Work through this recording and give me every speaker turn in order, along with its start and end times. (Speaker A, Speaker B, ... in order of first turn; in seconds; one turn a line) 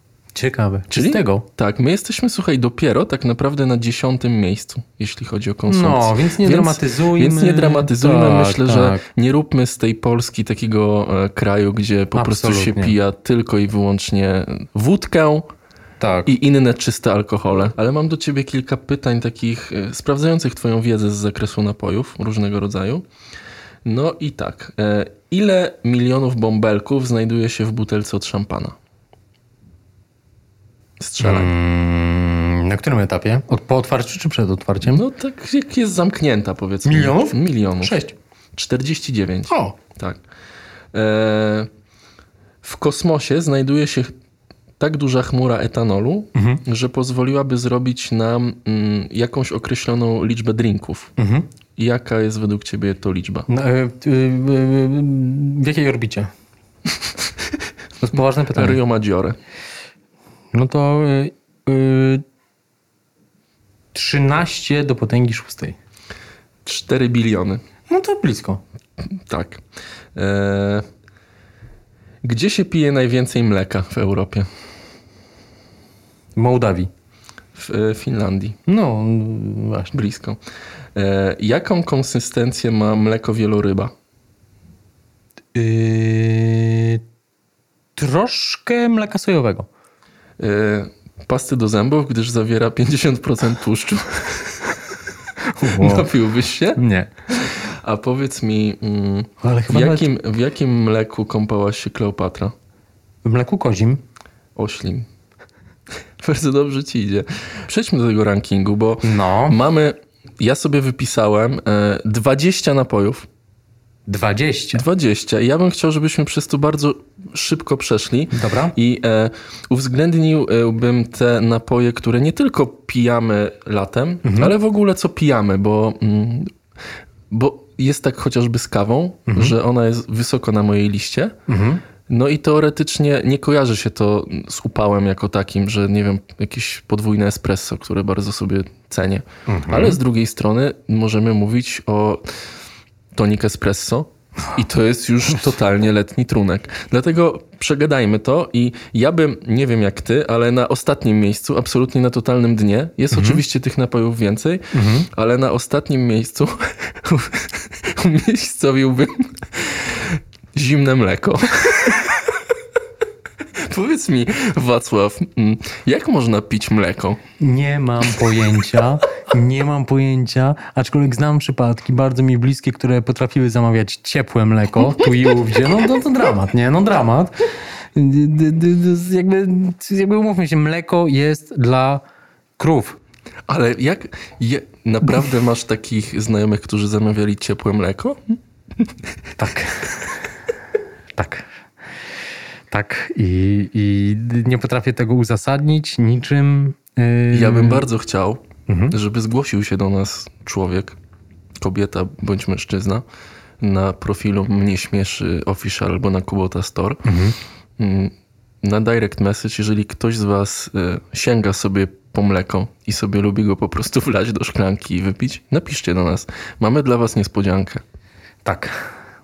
Speaker A: 0.3-1.5
Speaker B: 0.9-15.5
Speaker A: 5.7-9.0
Speaker A: 12.2-13.0
Speaker A: 16.0-16.3
Speaker B: 16.3-23.1
Speaker B: 23.9-28.8
Speaker B: 31.0-31.5
Speaker A: 31.2-35.0
Speaker B: 34.9-38.0
Speaker A: 36.9-38.1
Speaker B: 38.5-40.2
Speaker A: 39.5-39.8
Speaker B: 40.9-41.7
Speaker B: 42.6-44.1
Speaker B: 44.8-51.1
Speaker A: 46.4-46.6
Speaker A: 51.2-51.5
Speaker B: 51.8-53.5
Speaker A: 53.5-56.3
Speaker A: 58.0-58.8
Speaker B: 58.5-59.4
Speaker A: 60.5-62.2
Speaker A: 63.9-65.8
Speaker B: 66.7-67.6
Speaker A: 67.9-68.6
Speaker B: 69.1-69.6
Speaker B: 70.2-70.9
Speaker B: 72.2-74.5
Speaker A: 76.4-76.9
Speaker B: 77.5-78.6
Speaker A: 78.7-79.9
Speaker B: 79.9-80.4
Speaker B: 81.0-83.9
Speaker A: 85.5-87.0
Speaker A: 88.0-89.7
Speaker B: 90.4-94.8
Speaker A: 95.4-96.1
Speaker B: 95.7-102.5
Speaker A: 96.8-97.1
Speaker A: 99.4-100.1
Speaker A: 103.2-104.0
Speaker B: 104.6-105.1
Speaker B: 106.2-113.3
Speaker A: 109.0-109.6
Speaker A: 114.1-114.8
Speaker B: 114.8-126.5
Speaker A: 118.3-118.8
Speaker A: 124.2-124.5
Speaker B: 127.3-131.4
Speaker A: 129.3-129.6
Speaker A: 131.5-131.8
Speaker B: 132.1-142.2
Speaker A: 139.5-140.0
Speaker B: 143.1-162.4
Speaker A: 153.1-153.4
Speaker A: 154.7-155.1
Speaker B: 163.5-167.2
Speaker A: 167.4-177.4
Speaker A: 177.9-182.0
Speaker A: 182.6-183.0
Speaker B: 183.5-188.2
Speaker A: 189.4-190.0
Speaker A: 191.2-191.5
Speaker A: 192.7-197.8
Speaker B: 197.3-201.0
Speaker A: 198.7-199.0
Speaker B: 201.6-203.0
Speaker B: 203.6-207.1
Speaker A: 207.1-207.4
Speaker B: 207.8-217.8
Speaker A: 218.4-218.9